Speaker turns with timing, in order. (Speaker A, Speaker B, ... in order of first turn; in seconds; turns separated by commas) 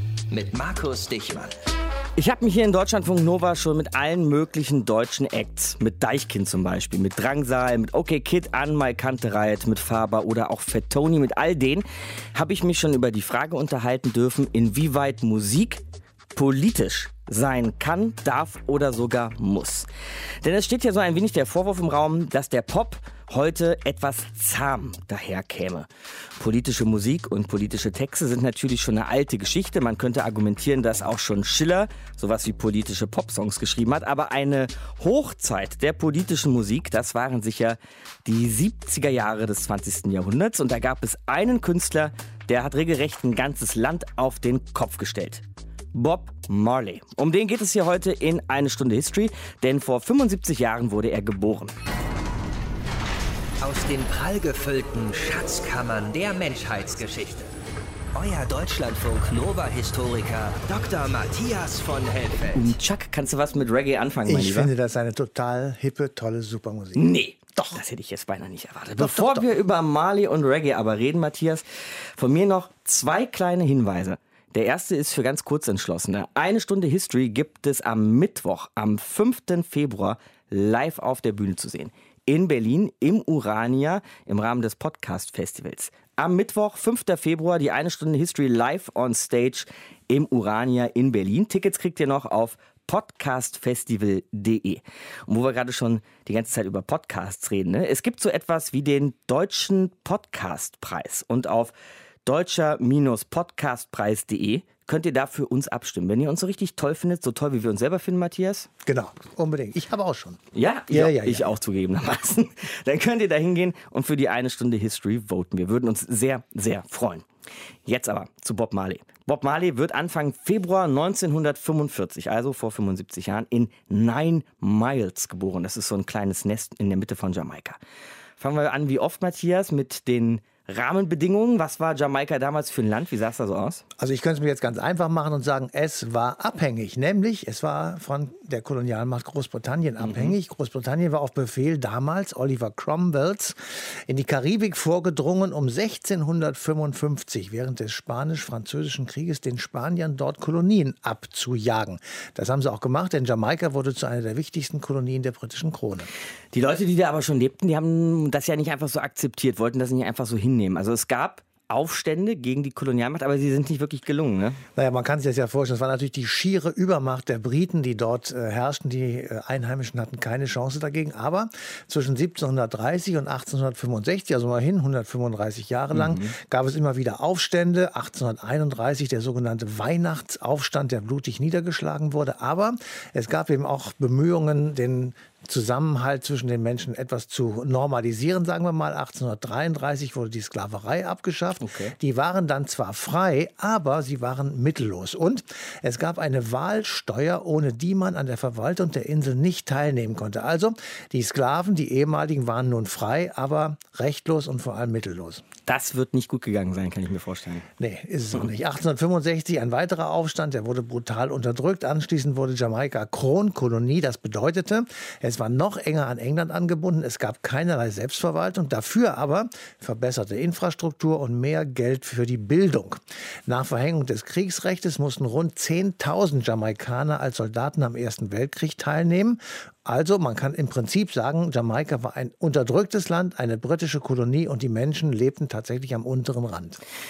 Speaker A: 0.3-1.5, Speaker B: 2.2-15.8, Speaker B: 16.3-19.9, Speaker B: 20.4-45.4, Speaker B: 45.9-51.7, Speaker A: 53.6-57.5, Speaker A: 58.1-62.7, Speaker B: 62.5-64.7, Speaker C: 64.3-67.8, Speaker B: 66.9-101.7, Speaker C: 69.0-69.4, Speaker B: 102.2-108.7, Speaker C: 108.8-111.5, Speaker B: 110.5-117.3, Speaker B: 117.8-127.8, Speaker B: 128.4-133.8, Speaker C: 134.0-156.1, Speaker B: 140.0-140.3, Speaker B: 156.5-164.6, Speaker C: 164.8-205.4, Speaker B: 175.9-176.3, Speaker B: 191.6-191.9, Speaker B: 205.7-207.7, Speaker C: 207.8-236.8